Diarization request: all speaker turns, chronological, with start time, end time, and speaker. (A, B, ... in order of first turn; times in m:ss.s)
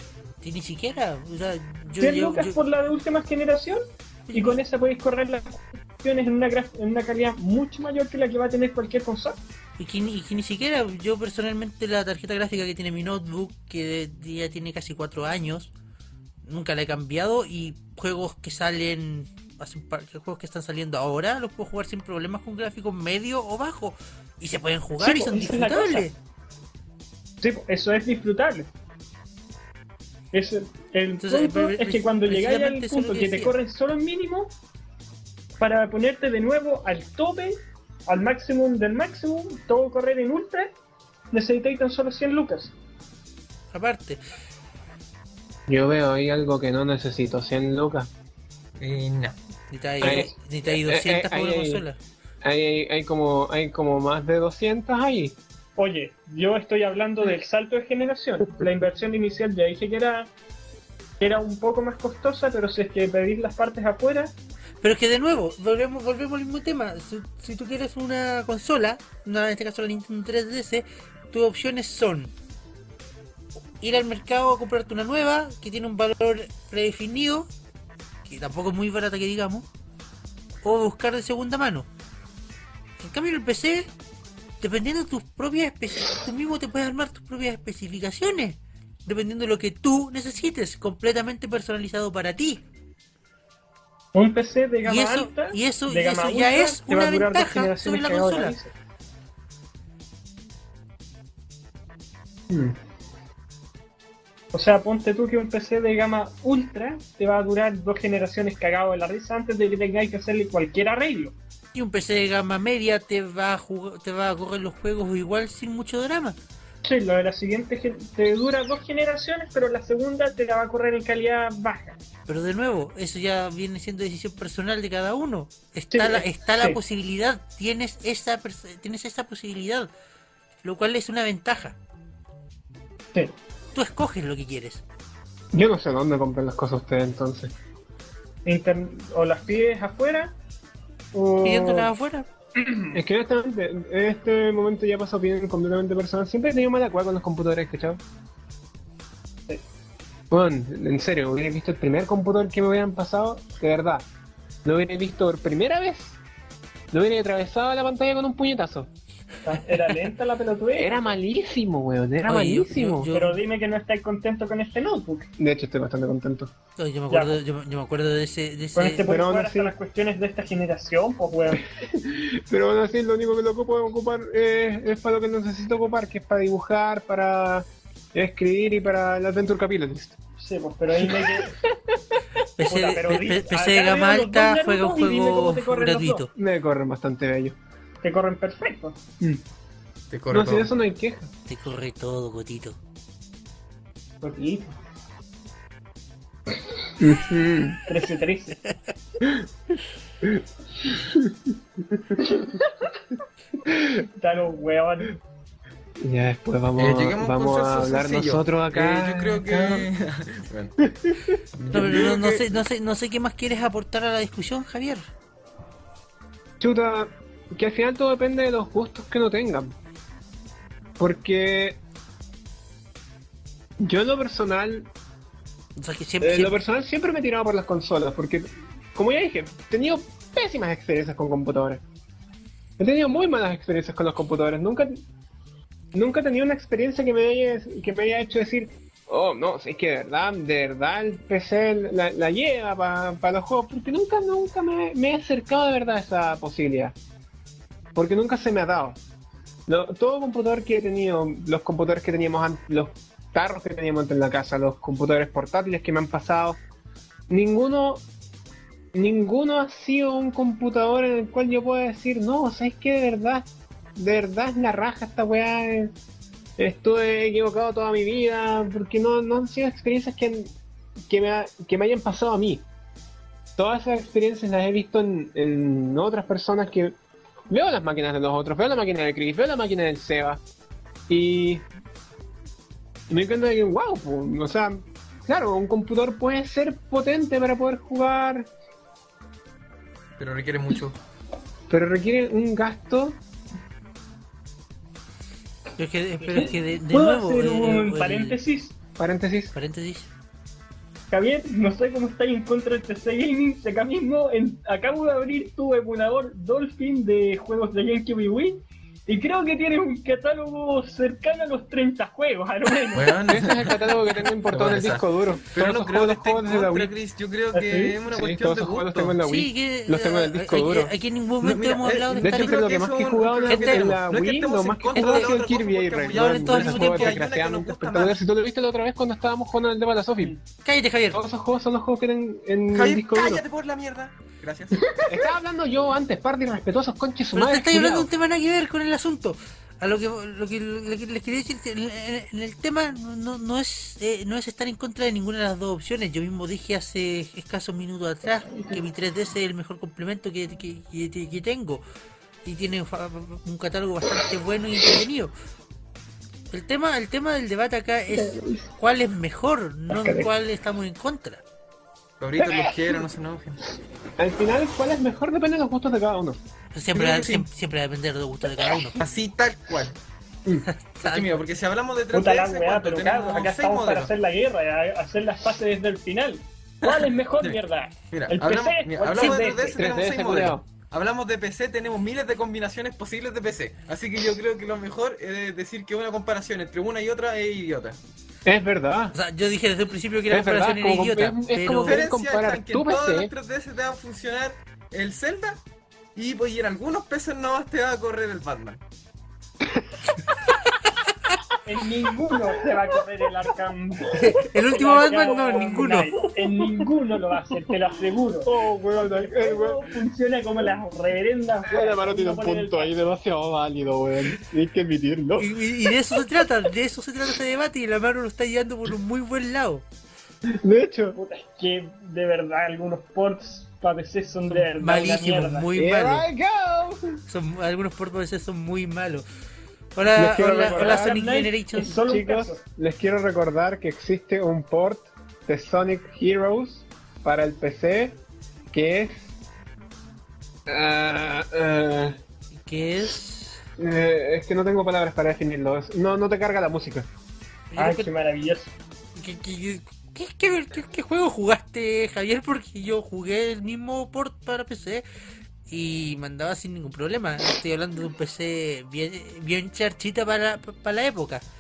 0:00.4-0:02.6 A
0:02.0-0:03.8 B
0:04.3-0:04.6 A
0:04.3-0:09.4 B
0:09.8-0:15.7 A
0:16.4-0:26.2 A
0:25.0-0:26.1 B
0:27.4-0:28.7 B
0:30.3-0:34.5 B
0:31.2-0:33.5 A
0:35.6-0:40.7 B
0:41.3-0:42.7 B
0:43.7-0:44.2 A
0:45.7-0:48.1 C
0:48.8-0:49.4 D
0:49.7-0:52.0 A
0:50.0-0:51.8 C
0:50.0-0:50.3 B
0:52.4-0:55.4 C
0:55.8-1:00.3 B
1:01.2-1:04.3 B
1:04.8-1:12.3 A
1:13.8-1:17.5 A
1:18.2-1:19.7 A
1:20.6-1:21.9 A
1:23.0-1:23.9 A
1:24.6-1:32.6 A
1:34.1-1:38.7 B
1:34.8-1:38.6 A
1:42.5-1:42.8 C
1:44.5-1:51.4 B
1:51.7-1:56.4 A
1:56.8-2:02.0 B
2:02.3-2:09.9 A
2:05.9-2:06.8 B
2:10.6-2:11.8 A
2:13.7-2:14.8 A
2:15.5-2:17.5 C
2:18.4-2:20.4 B
2:21.1-2:21.9 B
2:21.4-2:22.3 A
2:22.9-2:28.0 C
2:30.3-2:34.1 C
2:34.6-2:36.2 C
2:36.9-2:38.9 C
2:39.4-2:41.2 B
2:40.8-2:43.1 C
2:42.3-2:43.4 A
2:43.1-2:45.3 B
2:45.4-2:46.5 C
2:46.8-2:49.1 A
2:47.1-2:47.4 B
2:48.8-2:51.6 B
2:49.1-2:49.7 C
2:51.5-3:00.2 C
3:00.4-3:01.6 B
3:01.0-3:01.9 C
3:02.6-3:06.3 A
3:02.6-3:06.3 B
3:06.4-3:07.6 C
3:08.0-3:09.0 B
3:10.1-3:10.7 D
3:10.3-3:11.3 C
3:11.5-3:12.8 A
3:14.2-3:14.8 B
3:17.0-3:17.8 C
3:17.9-3:18.6 B
3:20.2-3:21.4 C
3:21.9-3:22.2 C
3:22.3-3:22.7 B
3:23.6-3:24.0 C
3:24.2-3:25.2 B
3:26.0-3:29.9 C
3:26.8-3:30.8 D
3:30.8-3:31.4 C
3:31.6-3:32.6 D
3:31.7-3:35.1 A
3:36.6-3:39.7 C
3:41.0-3:41.8 C
3:43.8-3:44.9 C
3:45.8-3:46.6 A
3:46.2-3:51.8 C
3:52.8-3:55.0 C
3:55.9-4:07.0 C
4:08.0-4:09.0 C
4:09.7-4:16.6 C
4:17.3-4:18.0 C
4:18.9-4:25.9 C
4:26.6-4:30.5 C
4:31.1-4:32.6 C
4:33.6-4:37.0 C
4:37.5-4:40.4 C
4:41.1-4:41.7 C
4:43.1-4:48.5 C
4:50.2-4:51.0 D
4:51.7-4:53.2 C
4:55.8-4:58.4 A
4:56.2-4:58.8 B
4:59.0-4:59.5 C
4:59.5-5:00.1 A
5:01.1-5:13.2 B
5:12.9-5:19.2 D
5:13.3-5:16.9 C
5:17.6-5:17.9 B
5:18.0-5:20.9 C
5:19.2-5:22.7 A
5:21.4-5:28.2 D
5:22.2-5:30.4 C
5:23.5-5:24.0 A
5:25.0-5:25.3 A
5:26.1-5:27.2 A
5:30.6-5:31.2 A
5:31.1-5:33.4 C
5:32.7-5:35.0 D
5:35.0-5:38.1 C
5:37.3-5:51.8 A
5:52.4-5:55.3 A
5:56.5-6:01.4 A
5:58.2-5:58.6 B
6:02.2-6:03.6 D
6:02.4-6:03.0 C
6:04.2-6:06.4 C
6:06.7-6:09.0 A
6:06.9-6:07.5 D
6:09.0-6:10.0 D
6:10.7-6:11.4 A
6:11.0-6:14.1 D
6:12.1-6:19.8 B
6:16.8-6:17.6 D
6:18.1-6:28.0 D
6:19.8-6:20.6 C
6:28.4-6:29.2 C
6:29.1-6:32.0 A
6:30.3-6:33.3 C
6:31.8-6:35.6 D
6:36.2-6:38.8 D
6:41.6-6:52.9 B
6:44.2-6:46.3 A
6:48.5-6:49.9 C
6:51.6-6:56.2 C
6:55.4-6:59.8 A
7:00.5-7:01.2 C
7:01.2-7:05.7 B
7:04.6-7:06.3 A
7:05.8-7:07.2 C
7:07.3-7:09.3 A
7:10.0-7:12.1 A
7:10.2-7:11.2 C
7:10.7-7:12.6 B
7:12.0-7:18.2 C
7:18.7-7:19.3 C
7:20.7-7:22.2 C
7:22.6-7:23.6 A
7:23.8-7:27.1 C
7:27.7-7:28.1 A
7:27.8-7:28.7 B
7:29.2-7:35.0 A
7:35.7-7:41.4 A